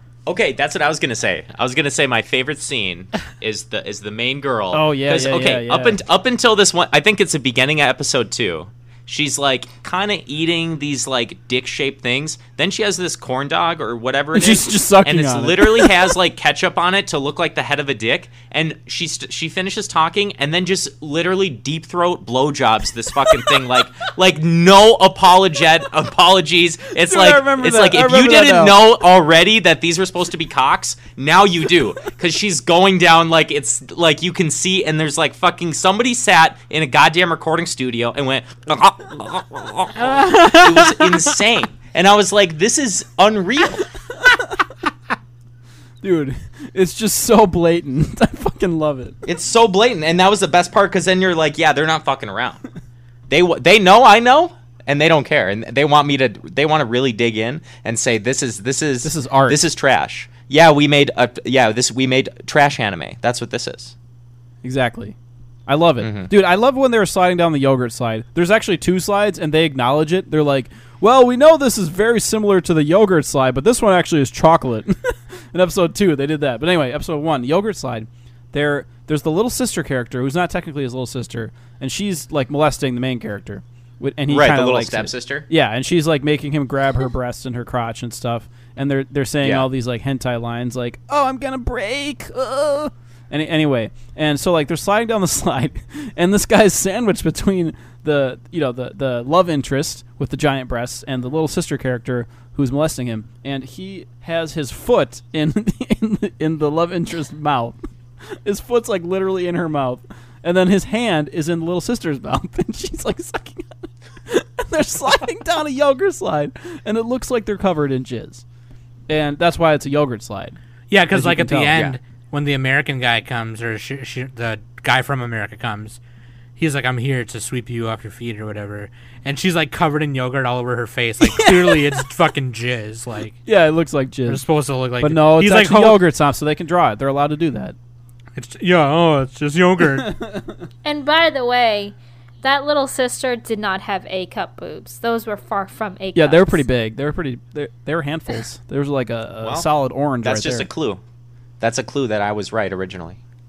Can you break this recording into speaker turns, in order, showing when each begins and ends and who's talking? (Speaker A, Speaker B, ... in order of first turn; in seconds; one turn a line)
Speaker A: 0.3-43.9
Speaker B: 4.7-6.0
Speaker B: 14.3-16.2
Speaker B: 27.0-28.9
Speaker C: 40.0-41.4
Speaker B: 46.0-49.2
Speaker A: 49.3-52.6
Speaker A: 53.3-63.9
Speaker B: 59.0-59.6
Speaker B: 64.6-65.2
Speaker B: 65.7-118.4
Speaker A: 66.0-66.3
Speaker A: 84.3-85.5
Speaker A: 89.4-89.7
Speaker B: 119.1-120.6
Speaker C: 120.9-126.0
Speaker B: 121.1-121.8
Speaker A: 121.7-122.0
Speaker C: 126.6-133.4
Speaker B: 131.2-132.1
Speaker B: 133.5-134.4
Speaker C: 134.3-136.1
Speaker B: 135.0-137.8
Speaker C: 138.4-140.2
Speaker B: 140.0-140.6
Speaker D: 140.8-146.6
Speaker B: 146.2-150.7
Speaker A: 149.4-149.7
Speaker A: 150.2-151.0
Speaker A: 151.6-153.2